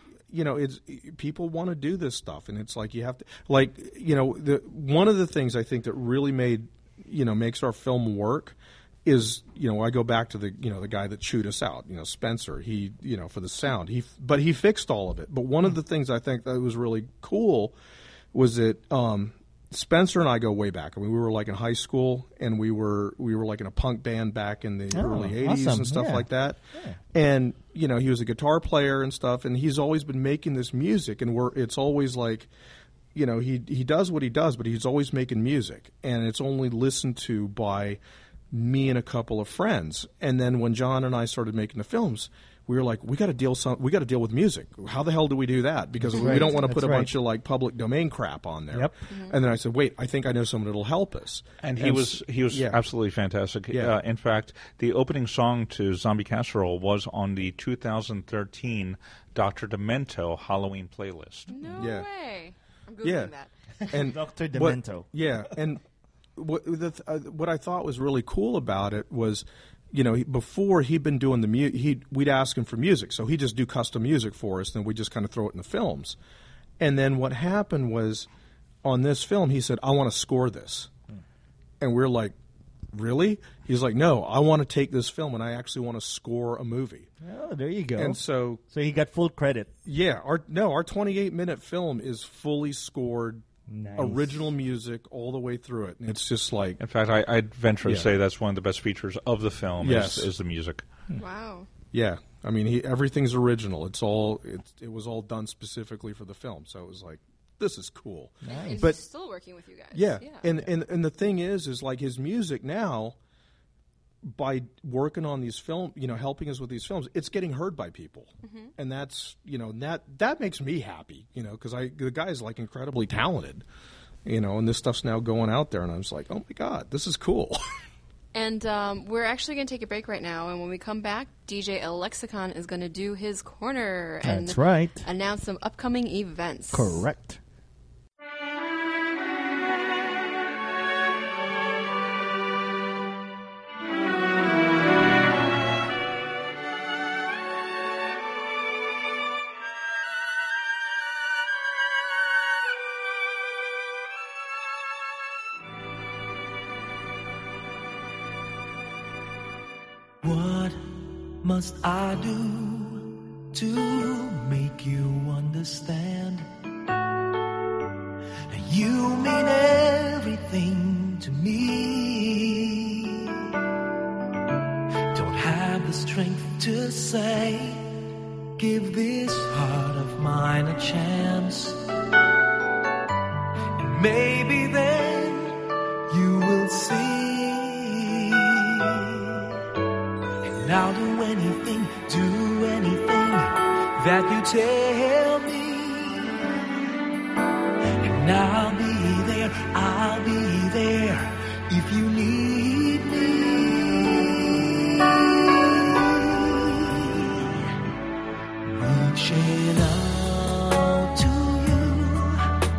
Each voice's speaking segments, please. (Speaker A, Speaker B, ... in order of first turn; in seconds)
Speaker A: 0.3-17.8, 18.3-26.6, 27.1-32.5, 33.1-38.0, 38.5-52.8, 61.8-62.1, 63.0-63.3, 63.9-65.8, 66.4-76.2, 76.8-78.3, 78.8-80.9, 81.8-82.3, 82.9-87.1, 88.0-88.6, 89.8-93.5, 94.0-96.8, 97.8-98.1, 99.8-100.3, 101.9-109.0, 109.9-113.2, 114.2-123.7, 124.2-127.6
Speaker B: 24.9-27.0, 46.0-47.2, 63.9-65.1, 87.2-89.7, 93.7-94.5, 108.4-108.9, 134.2-135.1, 136.7-137.4
Speaker C: 46.1-46.6, 49.1-49.4, 61.5-63.5, 101.2-101.7, 108.5-110.5, 118.4-118.7, 128.3-137.0
Speaker D: 51.6-61.5, 96.8-100.8
Speaker E: 160.2-166.5, 168.5-173.6, 175.1-177.9, 178.6-181.8, 183.8-189.6, 190.4-196.7, 198.0-207.8, 208.7-212.4